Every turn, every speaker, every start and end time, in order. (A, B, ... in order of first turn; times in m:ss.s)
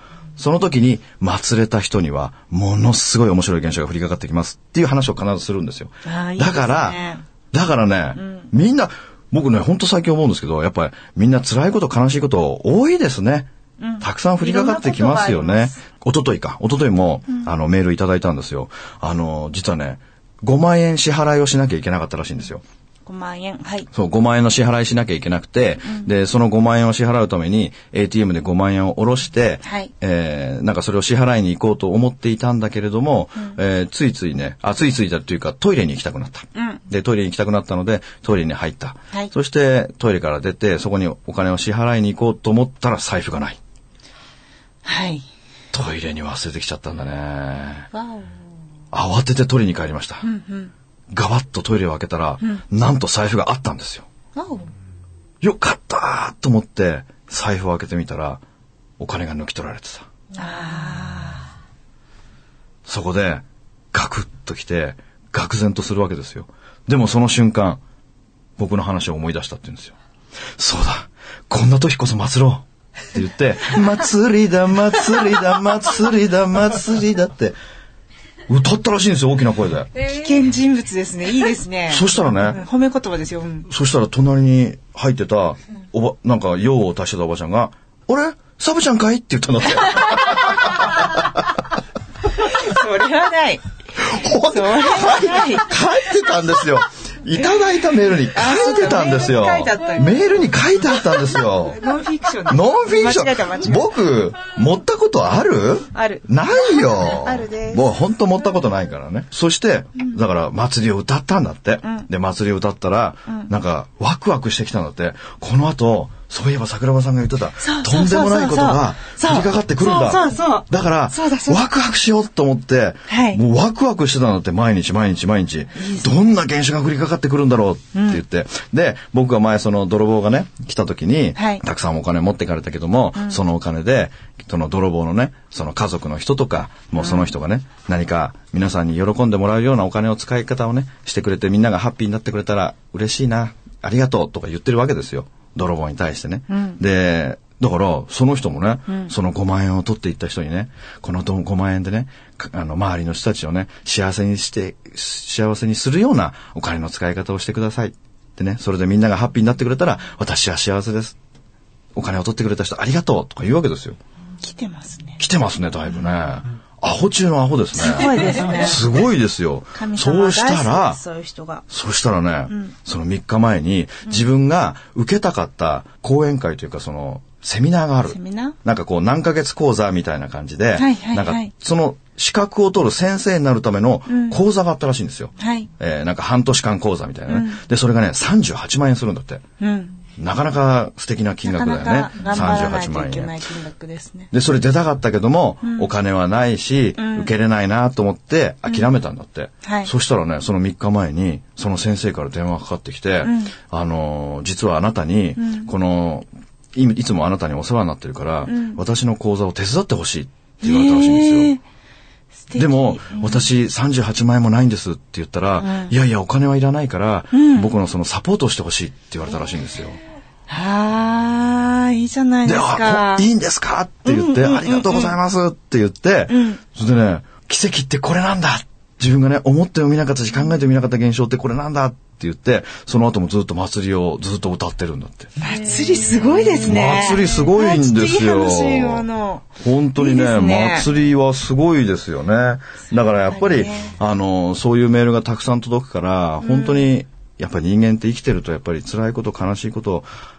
0:00.4-0:07.0 A
0:06.0-0:07.2 B
0:07.5-0:13.5 A
0:08.2-0:08.4 B
0:13.8-0:15.8 B
0:14.0-0:22.6 A
0:23.1-0:23.9 B
0:23.9-0:43.6 A
0:29.6-0:29.9 B
0:36.6-0:36.8 B
0:44.8-0:45.2 B
0:45.7-0:47.9 A
0:47.9-0:48.4 B
0:48.9-0:50.2 A
0:50.2-0:50.7 B
0:51.1-0:54.1 A
0:54.4-0:54.7 B
0:55.4-0:58.4 A
0:59.0-1:00.1 A
1:00.3-1:01.5 B
1:02.9-1:07.8 A
1:08.6-1:10.0 A
1:10.6-1:17.6 A
1:18.5-1:19.9 A
1:20.0-1:23.7 B
1:21.9-1:22.6 A
1:23.7-1:31.6 A
1:32.4-1:33.6 B
1:34.0-1:41.8 A
1:34.5-1:35.7 B
1:38.3-1:40.4 B
1:41.7-1:43.9 B
1:42.5-2:41.2 A
1:45.9-1:46.3 B
1:46.9-1:47.9 B
1:57.6-2:01.6 B
2:03.1-2:03.4 B
2:05.8-2:06.2 B
2:07.9-2:08.2 B
2:11.4-2:11.6 B
2:17.0-2:17.3 B
2:26.5-2:26.8 B
2:42.0-2:44.0 A
2:44.4-2:45.2 B
2:45.2-2:51.0 A
2:47.8-2:48.8 B
2:49.8-2:51.6 B
2:51.7-3:09.4 A
2:58.1-2:58.6 B
3:00.8-3:01.5 B
3:04.1-3:04.4 B
3:05.4-3:05.7 B
3:07.3-3:07.6 B
3:09.6-3:10.0 B
3:10.2-3:13.4 A
3:11.5-3:14.3 B
3:14.3-3:31.5 A
3:15.6-3:15.9 B
3:17.0-3:17.3 B
3:19.6-3:19.9 B
3:23.2-3:23.6 B
3:25.4-3:25.7 B
3:28.5-3:28.8 B
3:30.6-3:31.6 B
3:32.4-3:33.5 B
3:32.6-3:40.0 A
3:35.6-3:35.9 B
3:37.3-3:37.7 B
3:40.5-3:43.3 B
3:42.4-3:55.3 A
3:44.0-3:45.2 B
3:46.3-3:46.6 B
3:55.4-4:00.9 B
3:56.6-3:59.0 A
3:59.6-4:10.1 A
4:03.3-4:04.0 B
4:06.4-4:06.9 B